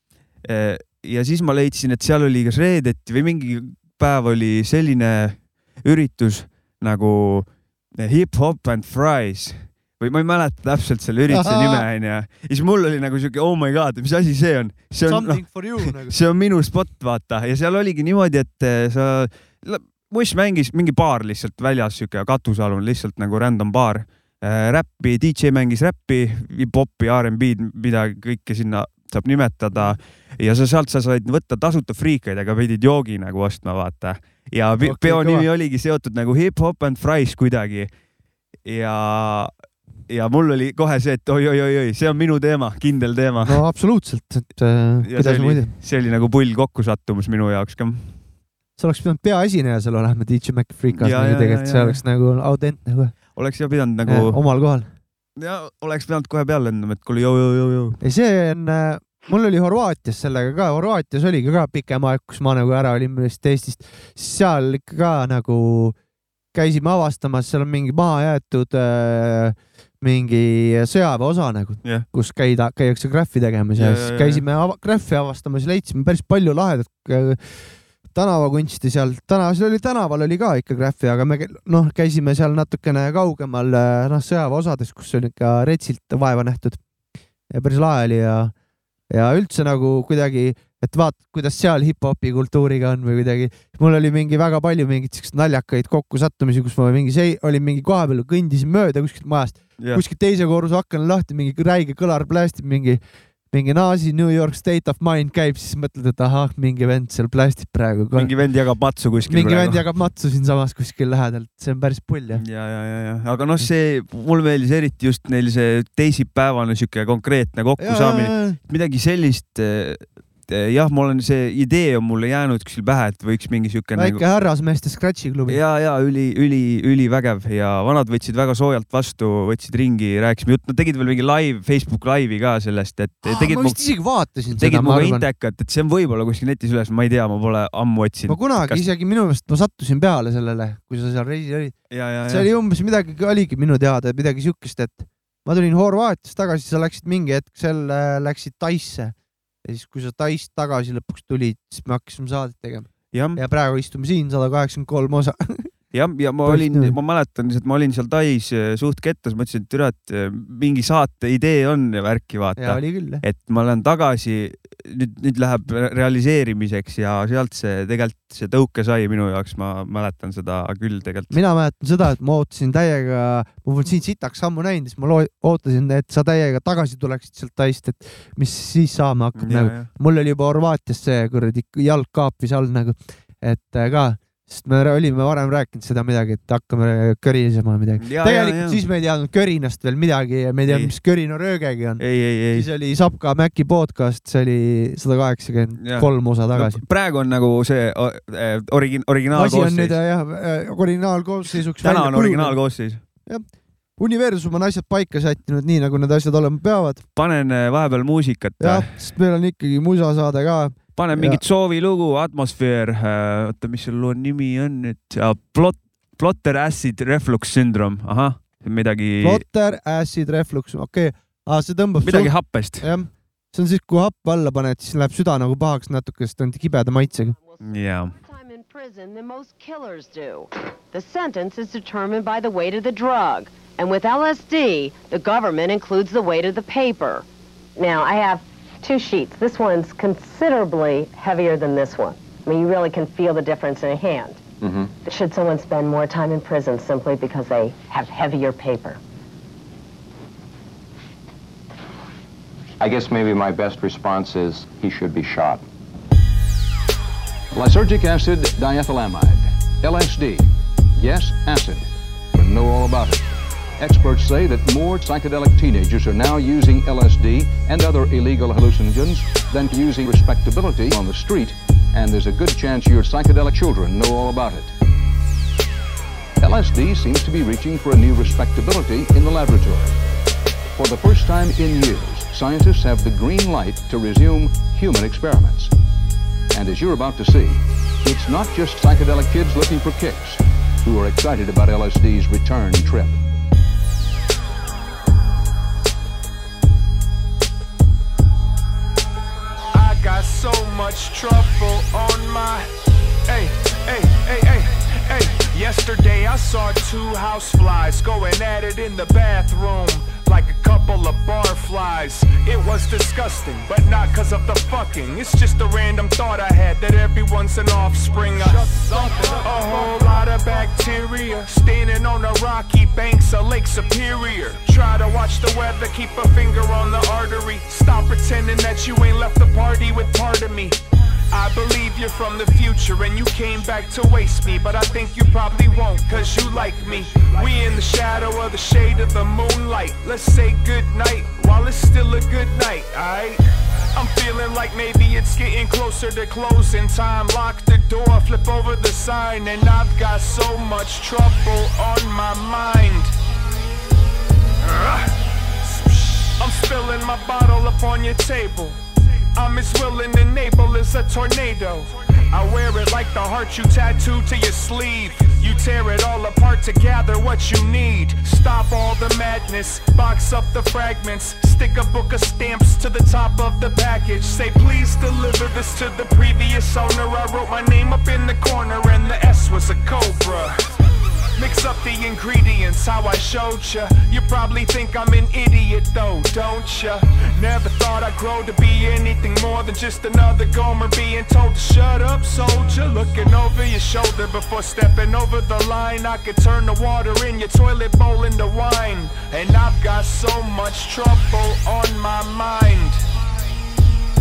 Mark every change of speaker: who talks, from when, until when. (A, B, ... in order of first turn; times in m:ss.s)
0:00.4-0:37.9 A
0:11.3-0:11.8 B
0:15.0-0:16.2 B
0:34.8-0:35.4 B
0:38.6-0:39.5 A
0:40.1-0:43.6 A
0:43.4-0:45.7 B
0:45.0-0:48.1 A
0:48.8-0:53.2 B
0:50.9-0:52.0 A
0:53.3-0:54.4 A
0:54.0-0:54.9 B
0:55.4-0:58.0 A
0:58.0-1:06.0 B
1:06.5-1:26.8 B
1:13.8-1:14.4 A
1:27.5-1:28.5 B
1:29.1-1:43.0 B
1:39.8-1:40.0 A
1:43.5-1:48.3 B
1:48.2-1:49.8 A
1:49.3-1:52.4 B
1:52.4-2:04.2 A
1:57.8-1:58.6 B
2:04.0-2:05.6 B
2:05.5-2:13.8 A
2:13.2-2:15.2 B
2:14.6-2:18.8 A
2:18.3-2:21.8 B
2:21.9-2:22.5 A
2:22.3-2:35.7 B
2:33.1-2:33.4 A
2:35.9-2:51.3 A
2:36.4-2:36.9 B
2:42.6-2:43.2 B
2:51.3-3:16.8 B
2:59.3-2:59.9 A
3:08.0-3:08.8 A
3:10.6-3:10.9 A
3:12.0-3:12.7 A
3:15.8-3:20.0 A
3:19.3-3:22.6 B
3:21.8-3:23.0 A
3:24.0-3:27.0 B
3:27.2-3:28.9 A
3:28.6-3:31.4 B
3:31.0-3:39.4 A
3:39.2-3:47.4 B
3:42.0-3:42.9 A
3:47.4-3:57.2 C
3:47.6-3:48.1 A
3:57.8-4:04.4 C
4:04.6-4:04.9 D
4:05.0-4:09.0 C
4:12.8-4:15.6 D
4:17.5-4:34.7 E
4:36.4-4:39.9 E
4:40.7-4:45.7 E
4:46.5-4:53.2 E
4:59.7-5:02.7 F
5:03.3-5:30.8 F
5:31.3-5:43.4 F
5:43.9-5:53.1 F
5:54.6-5:55.1 F
5:56.3-5:58.8 F
5:59.3-6:20.7 F
6:21.4-6:43.0 F